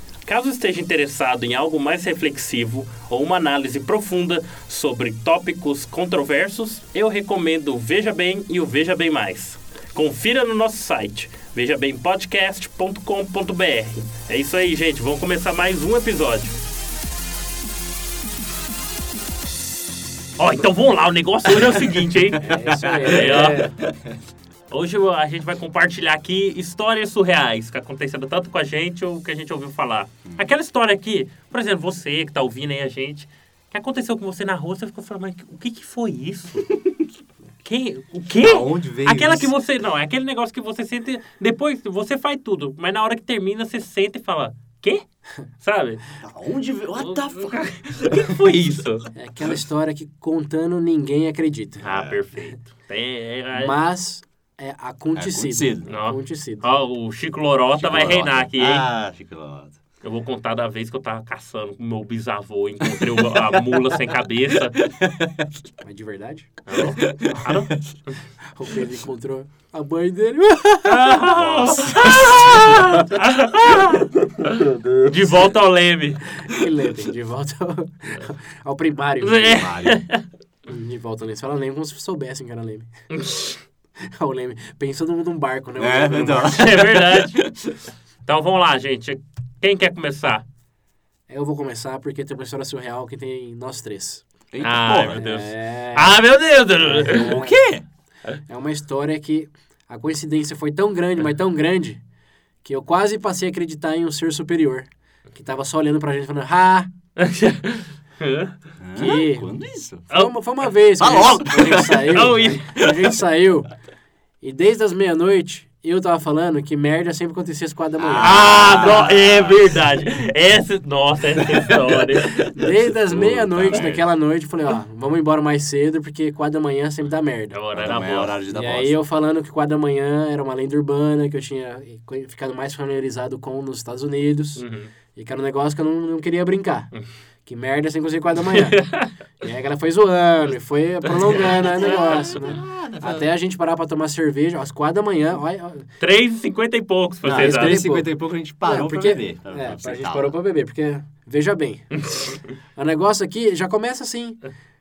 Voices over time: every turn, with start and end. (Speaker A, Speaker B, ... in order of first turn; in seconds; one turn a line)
Speaker A: 0.3-16.6
Speaker A: 20.4-23.7
Speaker B: 22.1-24.2
Speaker C: 22.4-23.8
Speaker A: 24.7-36.7
Speaker A: 37.6-45.0
Speaker B: 38.4-39.5
Speaker A: 45.6-46.0
Speaker B: 46.2-48.5
Speaker A: 47.0-49.1
Speaker C: 49.1-51.9
Speaker B: 51.8-52.2
Speaker A: 51.8-53.8
Speaker C: 53.5-56.6
Speaker B: 55.1-55.9
Speaker A: 55.9-58.9
Speaker B: 57.8-59.8
Speaker A: 60.0-64.8
Speaker B: 62.8-63.9
Speaker B: 64.8-65.5
Speaker C: 65.8-66.5
Speaker A: 66.7-68.2
Speaker B: 66.8-67.8
Speaker C: 68.5-71.2
Speaker A: 70.9-76.2
Speaker B: 71.2-73.1
Speaker B: 74.8-75.1
Speaker C: 76.3-79.6
Speaker A: 79.2-80.2
Speaker B: 79.4-80.0
Speaker C: 80.7-82.9
Speaker A: 83.1-83.6
Speaker C: 84.0-86.7
Speaker B: 85.8-87.8
Speaker A: 86.3-87.4
Speaker A: 88.2-90.4
Speaker C: 91.3-94.2
Speaker B: 94.5-95.3
Speaker A: 94.6-97.4
Speaker C: 95.2-96.2
Speaker C: 96.8-97.5
Speaker B: 97.0-97.8
Speaker C: 98.5-102.0
Speaker C: 102.6-106.9
Speaker A: 107.2-108.5
Speaker B: 108.8-110.1
Speaker C: 109.0-109.5
Speaker C: 110.1-113.7
Speaker B: 111.0-113.1
Speaker A: 112.1-112.6
Speaker C: 114.4-119.1
Speaker B: 118.0-119.8
Speaker A: 118.2-122.4
Speaker B: 121.4-122.0
Speaker C: 122.3-127.6
Speaker B: 122.6-124.1
Speaker A: 127.5-128.3
Speaker B: 127.7-129.0
Speaker C: 128.5-134.6
Speaker A: 134.6-134.9
Speaker C: 135.2-136.9
Speaker C: 137.5-138.9
Speaker A: 138.5-139.1
Speaker C: 139.4-145.9
Speaker A: 141.1-142.3
Speaker B: 141.3-143.3
Speaker A: 146.0-147.8
Speaker B: 147.2-150.3
Speaker C: 147.4-152.0
Speaker C: 152.8-154.4